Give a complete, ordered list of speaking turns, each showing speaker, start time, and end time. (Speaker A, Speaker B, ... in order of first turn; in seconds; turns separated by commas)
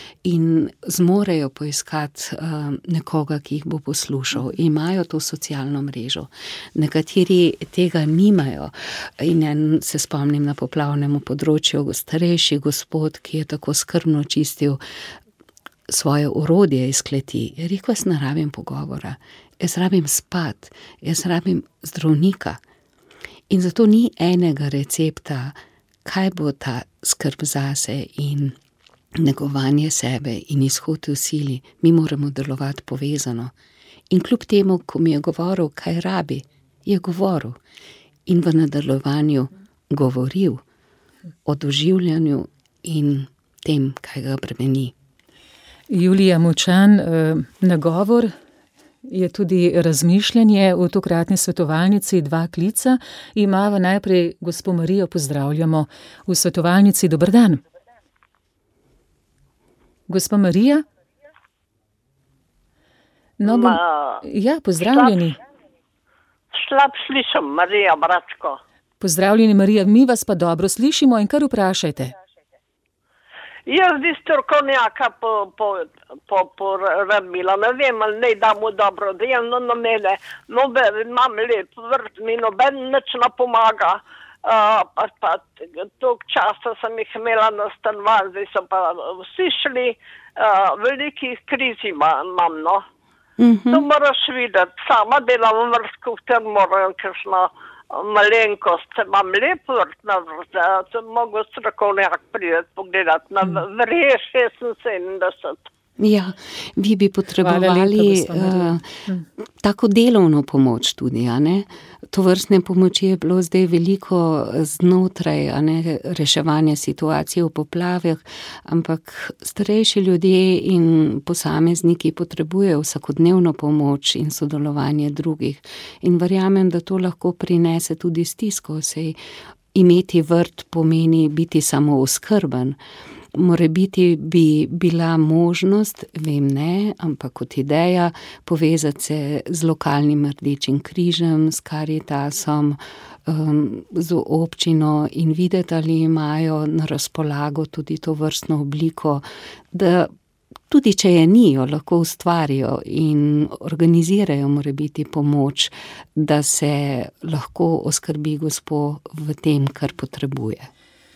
Speaker A: 0.2-14.8, Speaker A: 15.9-22.6, Speaker A: 23.5-28.6, Speaker A: 29.2-33.5, Speaker A: 34.1-37.6, Speaker A: 38.3-40.6, Speaker A: 41.5-44.9, Speaker B: 45.9-48.4, Speaker B: 49.0-57.6, Speaker B: 60.1-60.8, Speaker B: 63.4-65.4, Speaker C: 63.5-64.2, Speaker C: 66.5-68.6, Speaker B: 69.0-72.1, Speaker C: 73.7-92.8, Speaker A: 93.4-93.9, Speaker C: 93.7-105.7, Speaker A: 106.0-108.9, Speaker B: 107.4-109.3, Speaker A: 109.6-129.2, Speaker A: 129.7-132.8, Speaker A: 133.3-150.1, Speaker A: 150.7-160.7